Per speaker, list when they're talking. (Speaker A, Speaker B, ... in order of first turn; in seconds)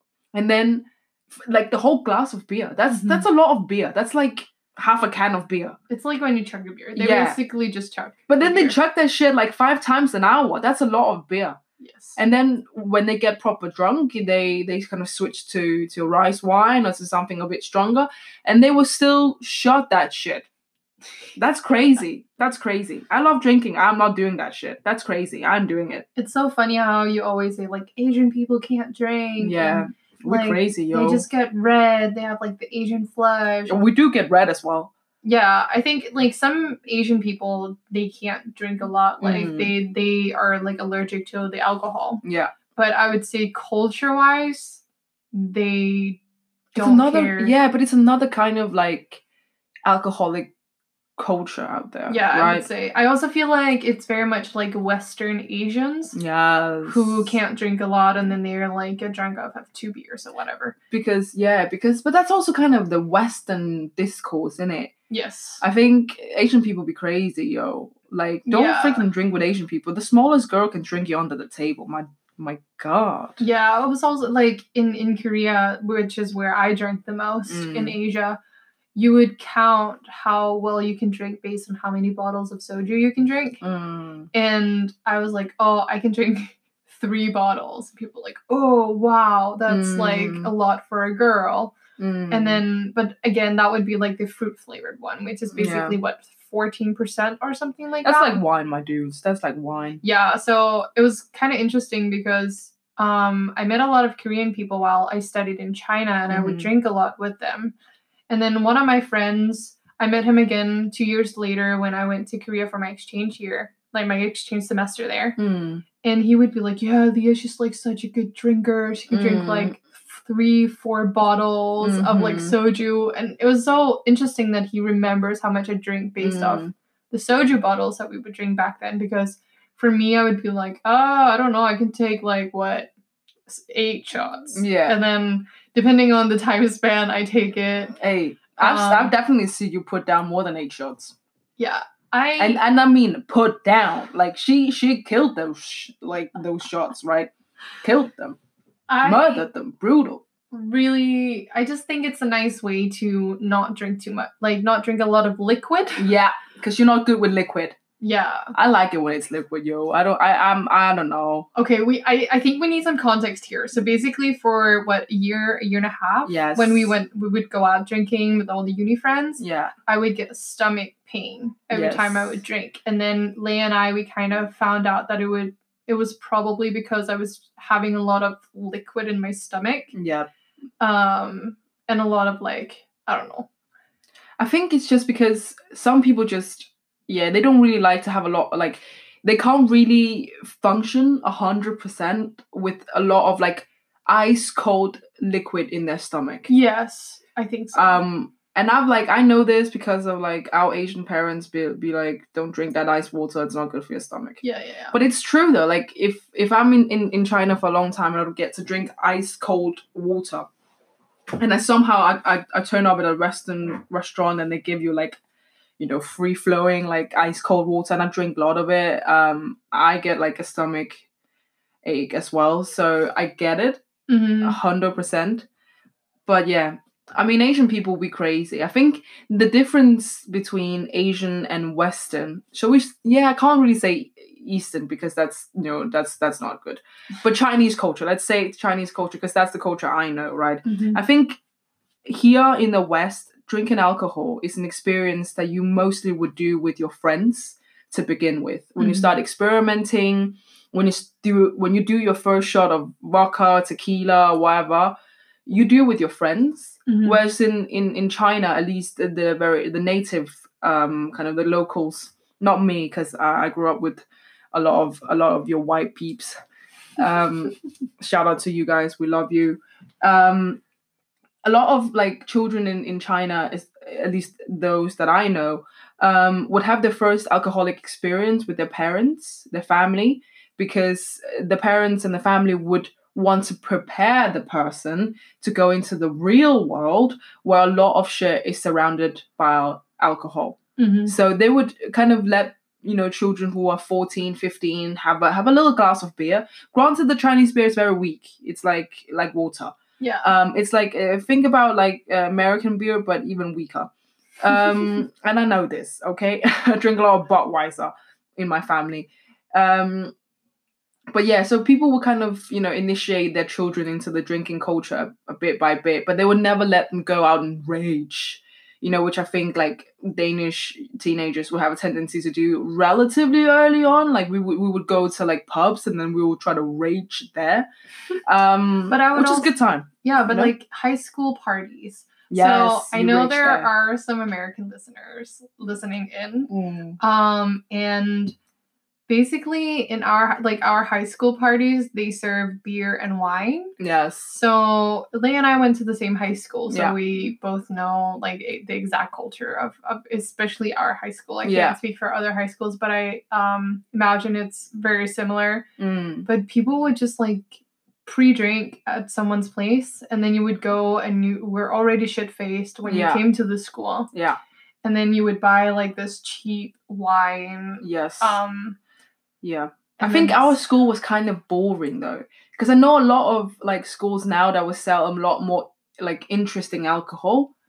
Speaker A: 0.3-5.8, 7.0-7.4, 8.3-11.6, 12.2-20.5, 21.4-26.1, 29.4-31.3, 33.7-34.9, 39.2-39.7, 42.2-42.5, 46.8-49.2, 49.9-50.5, 51.2-52.7, 56.1-57.4, 60.9-64.9, 65.6-73.4, 77.5-78.0, 83.6-84.3, 89.7-90.5, 92.0-92.6, 95.5-96.0, 98.0-100.0, 106.3-106.7, 115.4-115.8, 119.1-119.8, 121.8-122.6, 126.2-126.7, 134.5-135.0, 138.0-141.1, 142.4-147.3, 147.8-148.4, 149.0-150.2, 156.0-157.8, 158.5-161.5, 166.2-166.9, 169.4-169.7, 171.7-172.4, 179.9-180.3, 184.4-196.5, 197.7-210.5, 211.4-215.2, 215.8-221.1, 221.8-223.8, 224.4-225.5, 226.3-241.4, 242.1-254.9, 255.5-266.4, 267.0-270.6, 271.4-310.1, 311.1-327.7, 328.3-330.5, 332.3-333.7, 336.5-337.0, 343.8-344.3, 346.7-347.0, 351.4-351.8, 355.8-356.3, 362.9-363.2, 364.1-364.4, 367.8-368.4, 369.4-377.5
Speaker B: 2.9-3.2, 5.9-8.8, 11.8-12.2, 26.2-33.8, 35.2-42.2, 42.8-44.8, 45.3-46.2, 46.7-47.5, 52.1-56.2, 56.8-60.8, 65.1-65.6, 68.5-69.1, 73.4-78.4, 79.0-83.6, 84.3-91.7, 92.3-98.4, 100.0-107.7, 108.3-115.4, 116.0-132.9, 133.5-138.0, 138.6-139.1, 141.6-142.6, 148.9-149.4, 150.5-156.1, 158.0-158.5, 161.6-179.9, 180.8-183.5, 196.5-198.0, 204.4-204.9, 224.1-224.6, 240.7-241.0, 248.8-249.1, 256.9-257.2, 290.8-291.1, 300.0-300.3, 328.9-338.4, 339.1-343.7, 344.3-355.7, 356.2-357.5, 358.1-364.1, 364.8-368.8, 370.0-370.6